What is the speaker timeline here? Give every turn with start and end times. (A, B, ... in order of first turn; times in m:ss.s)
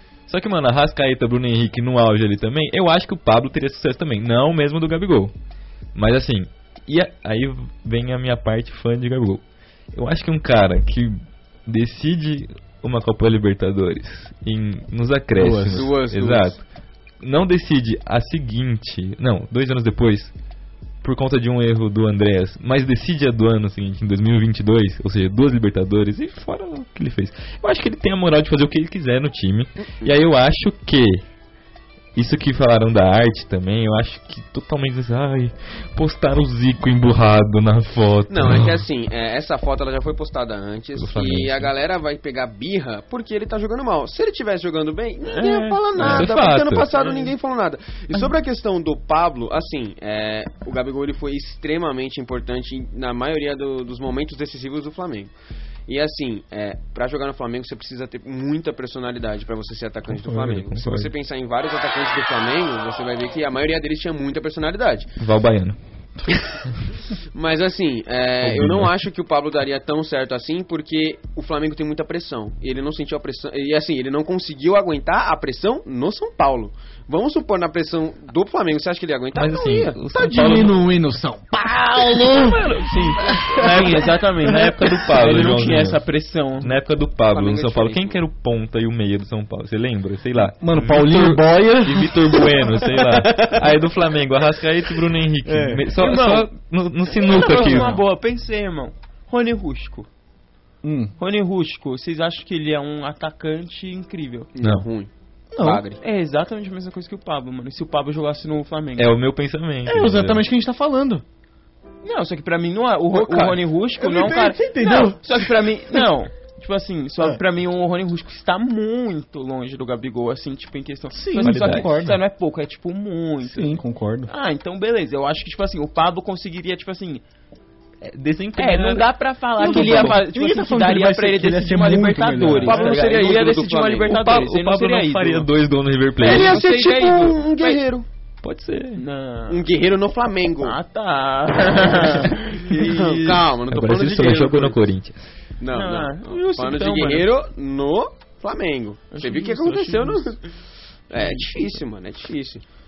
0:00.3-0:05.3 A
0:05.9-0:16.6 A
0:15.3-0:15.9 B
0:15.7-0:16.6 C
0:17.2-0:20.3 A
0:21.0-0:31.2 A
0:32.1-0:38.7 A
0:38.3-0:55.3 C
0:41.0-0:41.7 A
0:45.3-0:46.2 D
0:46.0-0:46.9 A
0:46.9-0:47.3 D
0:55.9-1:05.1 C
1:00.1-1:01.1 A
1:05.2-1:05.8 A
1:06.2-1:06.4 B
1:06.3-1:06.7 A
1:07.3-1:20.0 C
1:08.4-1:08.9 A
1:19.3-1:20.9 A
1:20.1-1:22.6 B
1:22.2-1:26.0 A
1:22.7-1:26.7 D
1:23.6-1:23.9 B
1:26.6-1:38.0 A
1:27.3-1:28.2 C
1:30.6-1:32.7 B
1:35.4-1:35.9 B
1:36.0-1:36.5 D
1:37.1-1:40.1 D
1:40.8-1:41.1 B
1:41.2-1:44.5 D
1:44.5-1:46.0 C
1:44.6-1:44.9 A
1:45.5-1:45.8 B
1:46.0-1:49.1 D
1:49.0-1:50.5 A
1:49.9-1:51.2 B
1:52.0-2:07.2 D
1:53.2-1:53.6 C
1:54.0-1:56.0 B
2:01.1-2:02.2 B
2:01.4-2:01.9 A
2:03.4-2:04.3 B
2:08.0-2:10.2 A
2:08.6-2:15.5 D
2:09.6-2:13.0 B
2:12.6-2:14.1 C
2:14.1-2:16.6 A
2:16.2-2:17.8 D
2:16.2-2:18.0 C
2:18.4-2:19.0 A
2:19.0-2:19.6 D
2:19.5-2:20.8 C
2:20.6-2:23.4 D
2:22.5-2:24.8 C
2:23.7-2:25.3 A
2:25.6-2:30.5 C
2:25.7-2:27.3 D
2:29.1-2:30.4 D
2:31.1-2:32.6 C
2:31.2-2:31.5 D